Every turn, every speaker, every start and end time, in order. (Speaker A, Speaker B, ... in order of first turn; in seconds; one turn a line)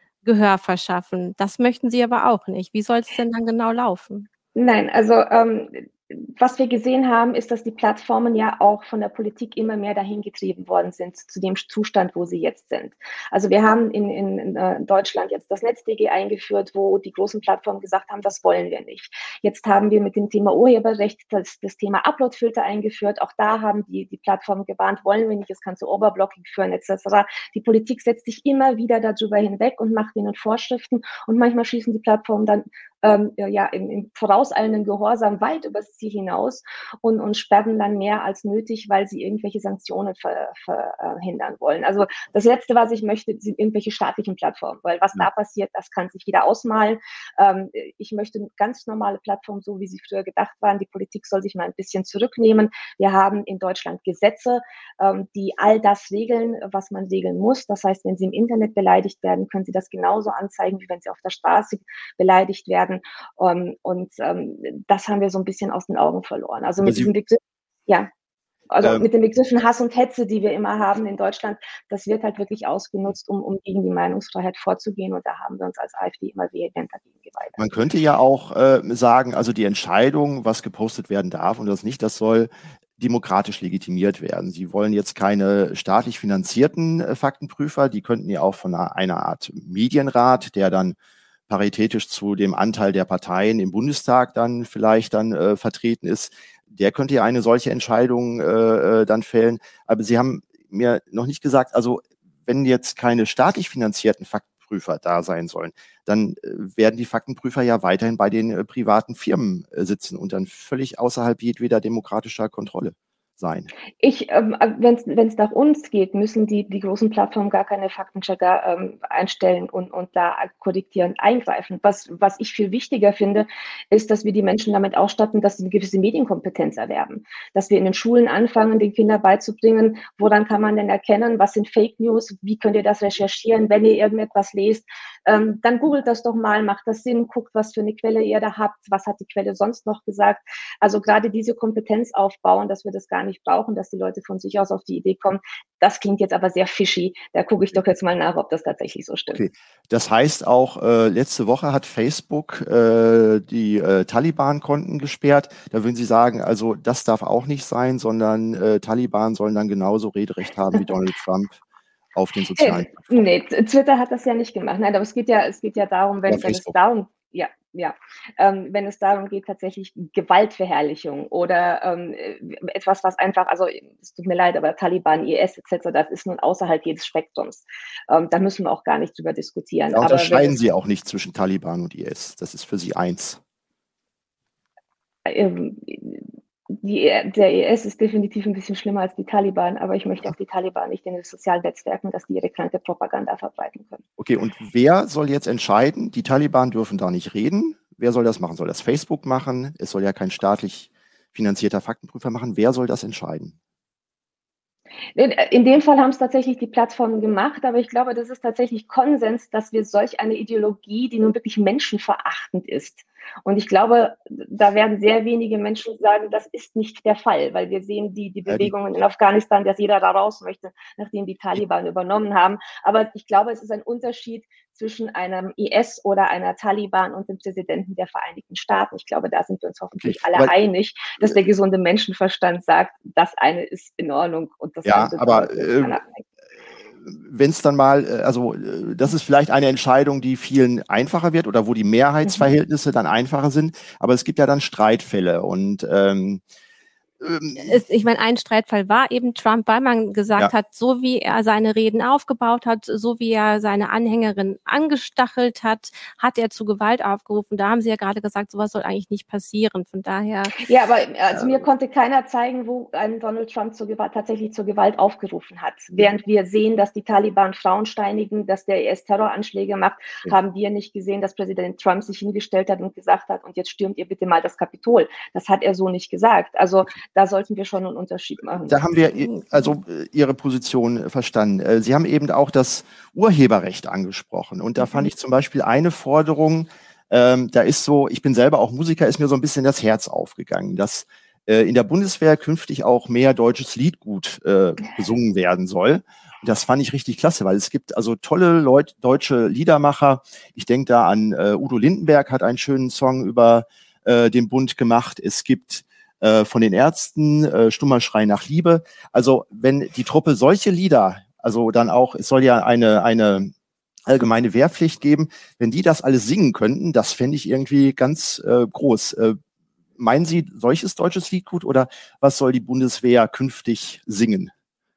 Speaker A: 0.2-4.3
Speaker B: 4.5-68.1
Speaker C: 66.8-67.1
Speaker B: 68.7-77.7
Speaker C: 68.8-69.1
Speaker C: 77.6-91.0
Speaker C: 91.5-113.7
Speaker B: 114.0-149.4
Speaker C: 149.3-161.6
Speaker C: 162.2-163.3
Speaker B: 162.6-180.6
Speaker C: 166.3-166.8
Speaker C: 179.9-183.4
Speaker B: 185.2-194.0
Speaker C: 194.2-203.6
Speaker B: 205.2-236.2
Speaker C: 218.5-218.7
Speaker C: 230.0-230.5
Speaker C: 234.8-236.0
Speaker C: 237.0-246.4
Speaker C: 247.2-247.8
Speaker A: 247.6-260.6
Speaker B: 260.6-278.8
Speaker C: 278.7-313.5
Speaker C: 314.1-319.4
Speaker C: 320.0-324.5